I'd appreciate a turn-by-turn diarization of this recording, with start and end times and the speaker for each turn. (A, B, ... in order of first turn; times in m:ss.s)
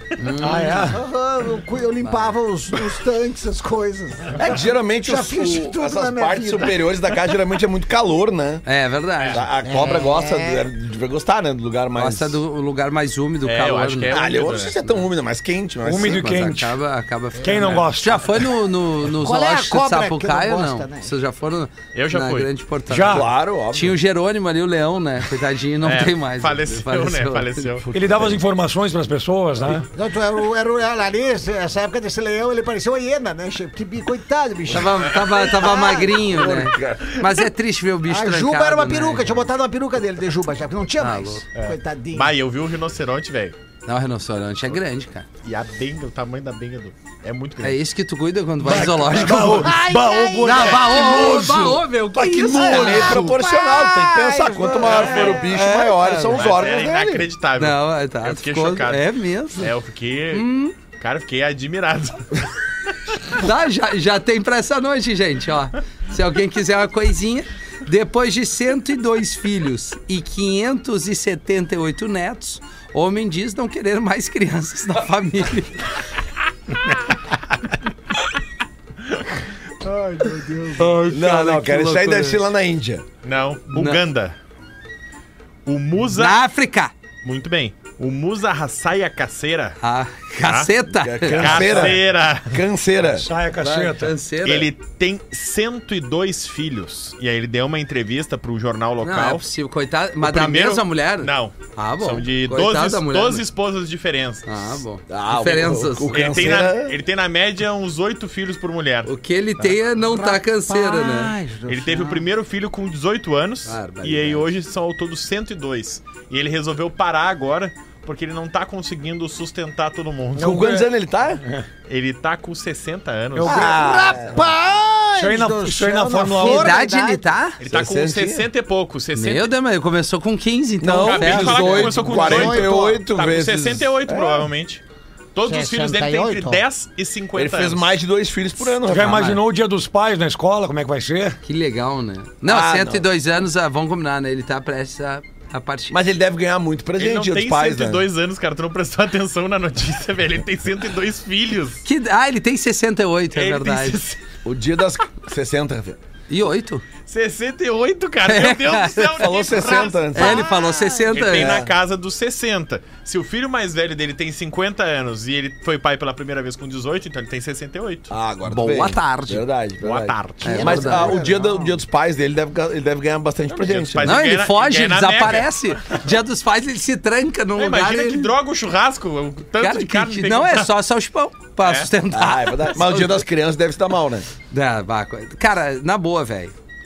0:00.2-0:00.9 A
0:00.4-0:01.0 B
0:00.8-0:07.0 C
0:02.0-0:02.3 A
0:04.3-0:08.6 D
0:08.6-0:09.4 A
0:09.3-0:12.4 D
0:09.6-0:10.7 C
0:11.9-0:14.2 A
0:13.4-0:15.0 E
0:14.1-0:16.3 D
0:15.8-0:16.8 B
0:15.9-0:27.7 A
0:17.4-0:18.4 B
0:19.1-0:21.1 C
0:21.9-0:22.5 E
0:22.9-0:23.3 B
0:23.1-0:24.0 D
0:25.8-0:27.8 E
0:27.9-0:29.9 B
0:27.9-0:28.3 D
0:29.9-0:36.3 C
0:34.7-0:39.4 A
0:36.3-0:37.2 D
0:38.1-0:42.3 C
0:41.0-0:41.4 A
0:41.5-0:43.6 E
0:43.8-0:45.2 A
0:45.4-0:47.8 E
0:47.6-0:49.7 A
0:48.6-0:53.2 B
0:49.4-0:51.3 C
0:50.4-0:53.2 A
0:52.1-0:57.3 D
0:52.6-0:55.7 C
0:54.8-0:55.4 E
0:55.4-0:56.5 A
0:56.3-1:02.3 E
0:57.6-0:59.7 A
1:00.3-1:00.7 A
1:03.4-1:15.8 A
1:19.8-1:21.0 C
1:20.8-1:21.0 B
1:20.8-1:22.4 A
1:21.0-1:23.0 D
1:23.2-1:24.3 E
1:23.7-1:24.0 A
1:25.6-1:26.4 E
1:26.1-1:26.9 A
1:27.2-1:29.8 E
1:29.8-1:31.6 A
1:30.4-1:30.7 E
1:31.0-1:33.3 D
1:31.3-1:32.0 B
1:31.3-1:32.6 E
1:33.1-1:34.1 B
1:33.6-1:34.7 A
1:34.4-1:39.4 E
1:39.0-1:43.4 A
1:40.2-1:44.8 E
1:44.4-1:46.1 A
1:45.1-1:47.0 D
1:46.1-1:49.8 E
1:49.0-1:51.3 A
1:50.1-1:52.2 C
1:51.7-2:00.9 E
1:53.6-1:54.5 A
2:00.4-2:00.8 B
2:00.4-2:01.4 D
2:01.9-2:03.9 E
2:03.4-2:07.3 C
2:03.4-2:04.4 D
2:05.2-2:06.8 B
2:06.4-2:07.6 A
2:07.6-2:09.5 E
2:07.6-2:08.4 D
2:09.1-2:12.2 A
2:10.8-2:14.5 D
2:11.0-2:14.8 E
2:12.1-2:13.0 C
2:15.3-2:17.9 E
2:15.4-2:16.6 C
2:17.4-2:19.2 D
2:18.8-2:21.4 B
2:18.9-2:19.4 A
2:21.4-2:26.0 A
2:22.4-2:23.0 D
2:25.9-2:28.0 D
2:27.0-2:31.8 E
2:31.8-2:34.0 A
2:33.3-2:34.2 E
2:34.4-2:36.0 D
2:36.3-2:36.8 A
2:37.1-2:40.1 E
2:38.2-2:39.3 A
2:39.2-2:40.4 D
2:39.7-2:41.3 C
2:40.1-2:41.6 A
2:41.1-2:48.1 E
2:41.3-2:41.7 D
2:48.1-2:54.1 D
2:48.4-2:49.4 A
2:49.8-2:50.8 E
2:50.4-2:51.2 A
2:50.5-2:51.8 C
2:53.5-2:56.1 E
2:54.0-2:58.3 A
2:57.6-3:00.7 E
2:59.6-3:03.2 A
3:01.6-3:01.9 E
3:02.1-3:04.3 D
3:04.5-3:06.5 A